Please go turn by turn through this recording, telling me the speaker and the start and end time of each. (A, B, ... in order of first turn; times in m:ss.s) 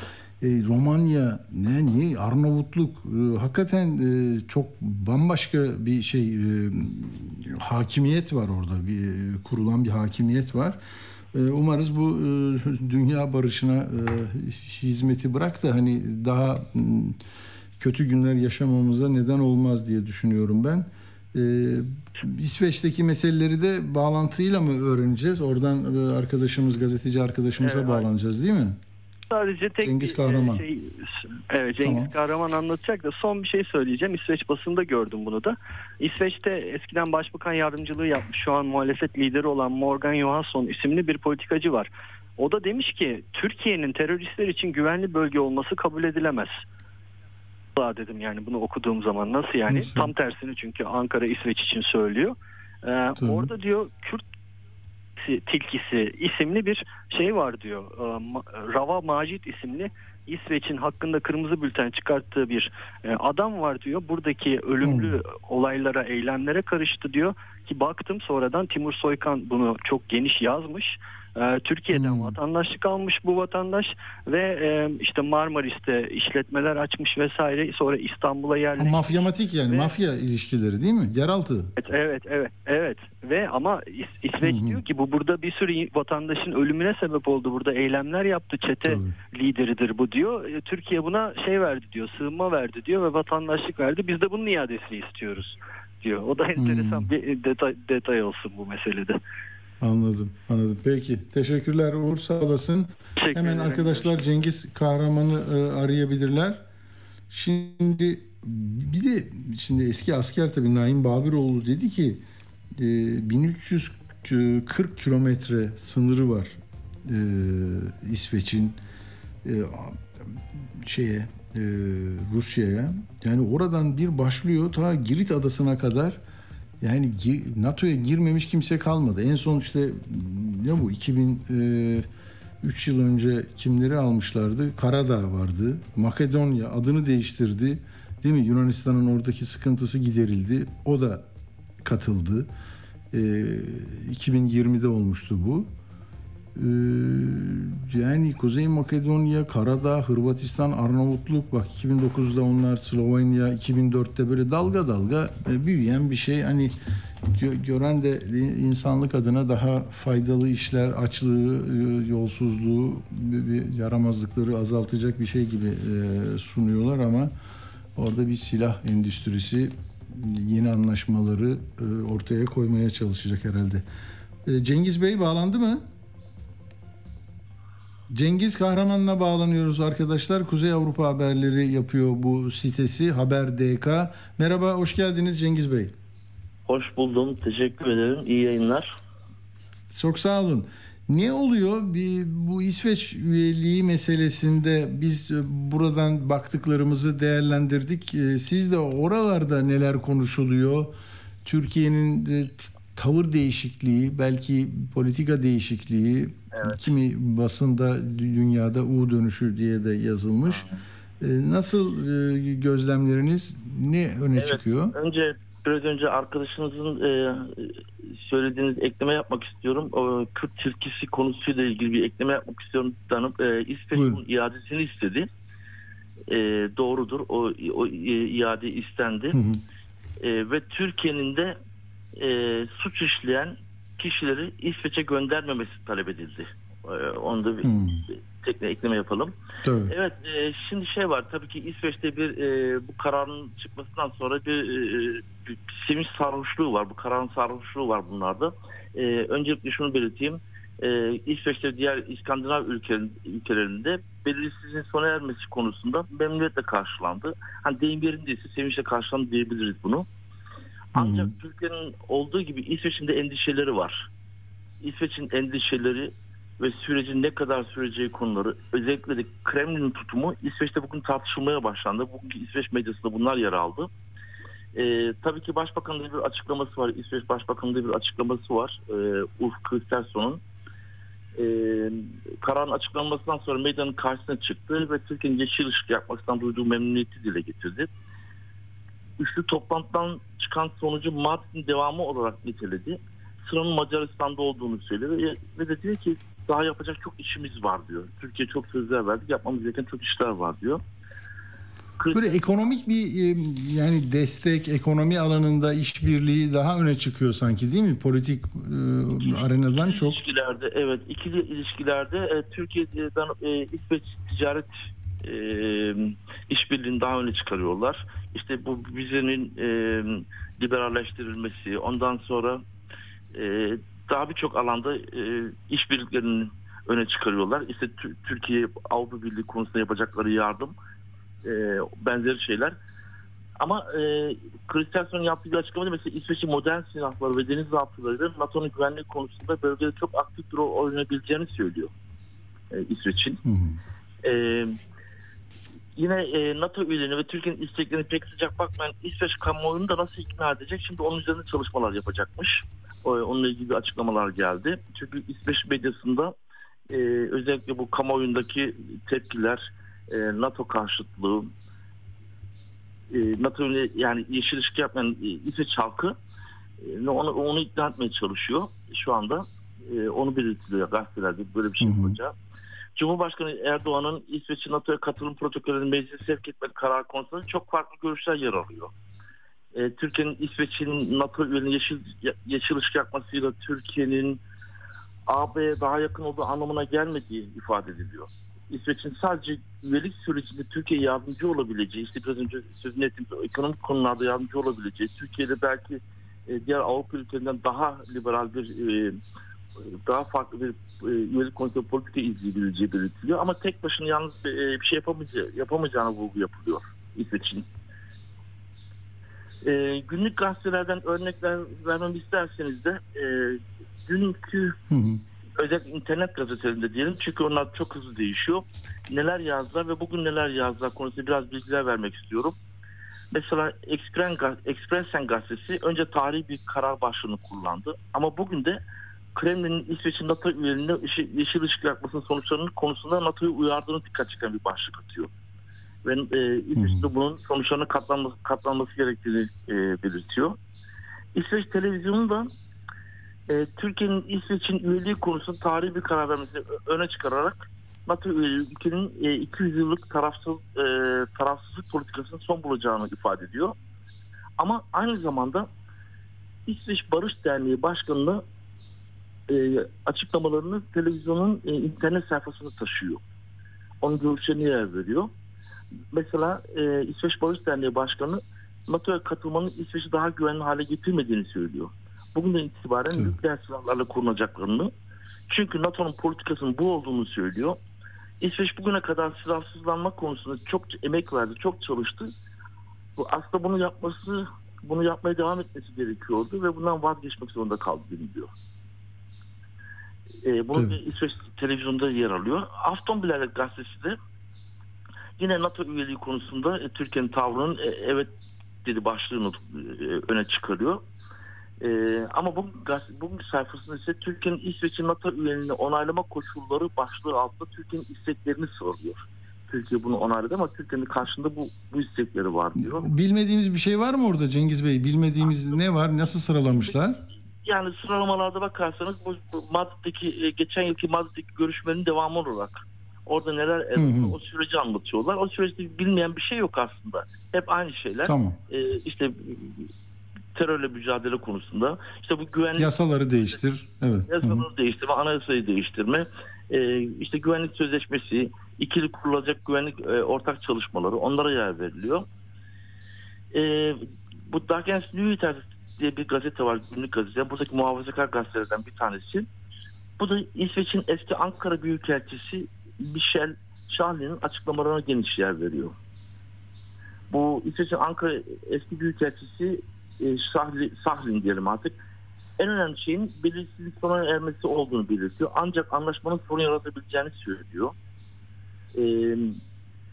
0:00.4-0:10.8 A
0:11.3-0:17.2 A
0:17.8-0:28.8 A
0:27.6-0:28.1 B
0:29.3-0:46.6 B
0:29.8-0:30.6 A
0:31.8-0:32.1 A
0:47.8-0:54.2 B
0:49.7-0:50.1 A
0:53.2-0:53.5 A
0:55.2-1:19.2 B
1:04.8-1:05.2 A
1:11.9-1:12.4 A
1:18.8-1:21.7 A
1:19.7-1:20.0 B
1:21.8-1:39.2 B
1:24.4-1:24.8 A
1:28.8-1:29.1 A
1:36.6-1:37.1 A
1:39.8-1:46.6 A
1:43.2-1:44.2 B
1:47.3-1:52.2 A
1:52.8-1:58.8 A
1:59.4-2:06.2 A
2:06.8-2:12.1 A
2:12.6-2:21.3 A
2:21.8-2:22.5 A
2:23.1-2:25.7 A
2:26.6-2:36.8 A
2:37.3-2:47.3 A
2:48.0-2:53.9 A
2:54.4-2:55.9 A
2:58.1-3:05.9 A
3:06.7-3:09.0 C
3:09.9-3:20.9 A
3:21.4-3:30.6 A
3:26.5-3:26.8 C
3:30.5-3:30.8 C
3:31.2-3:34.9 A
3:34.4-3:45.3 C
3:44.0-3:44.2 A
3:46.3-3:49.4 C
3:49.3-3:49.6 A
3:50.2-3:51.6 C
3:52.2-3:59.3 C
3:57.6-3:58.0 A
3:59.6-3:59.9 A
3:59.9-4:20.1 C
4:21.0-4:21.3 A
4:21.0-4:24.1 C
4:24.8-4:33.9 C
4:34.8-4:40.4 C
4:41.4-4:47.9 C
4:49.2-5:00.8 C
5:02.0-5:02.6 C
5:02.1-5:10.2 A
5:09.3-5:14.7 C
5:15.2-5:22.6 C
5:23.3-5:30.7 C
5:31.4-5:32.8 C
5:33.6-5:41.9 C
5:42.7-5:43.4 C
5:43.4-5:43.8 A
5:44.2-5:44.8 C
5:46.0-5:56.3 C
5:56.9-6:01.5 C
6:03.1-6:06.2 C
6:06.8-6:12.3 C
6:11.8-6:12.2 A
6:13.0-6:18.9 C
6:19.7-6:24.4 C
6:25.3-6:39.2 C
6:39.9-6:47.7 C
6:49.6-6:54.8 C
6:54.9-6:55.2 A
6:55.6-7:02.6 C
7:03.3-7:08.8 C
7:09.4-7:15.3 C
7:16.0-7:20.6 C
7:16.8-7:17.1 A
7:21.4-7:22.5 C
7:23.5-7:33.8 C
7:34.6-7:35.7 C
7:36.7-7:38.4 C
7:39.5-7:43.2 C
7:44.0-7:45.3 C
7:46.1-7:54.9 C
7:55.5-7:57.8 C
7:58.4-8:02.3 C
8:03.2-8:08.5 C
8:10.4-8:14.2 C
8:15.4-8:18.3 C
8:18.8-8:21.0 C
8:21.8-8:33.1 C
8:32.8-8:37.2 A
8:37.6-8:49.9 C
8:44.0-8:44.4 A
8:48.2-8:48.6 A
8:50.6-8:52.9 C
8:52.8-8:54.6 A
8:54.3-9:02.2 C
9:03.5-9:09.5 C
9:10.2-9:16.0 C
9:17.3-9:22.0 C
9:22.6-9:27.9 C
9:29.0-9:29.6 C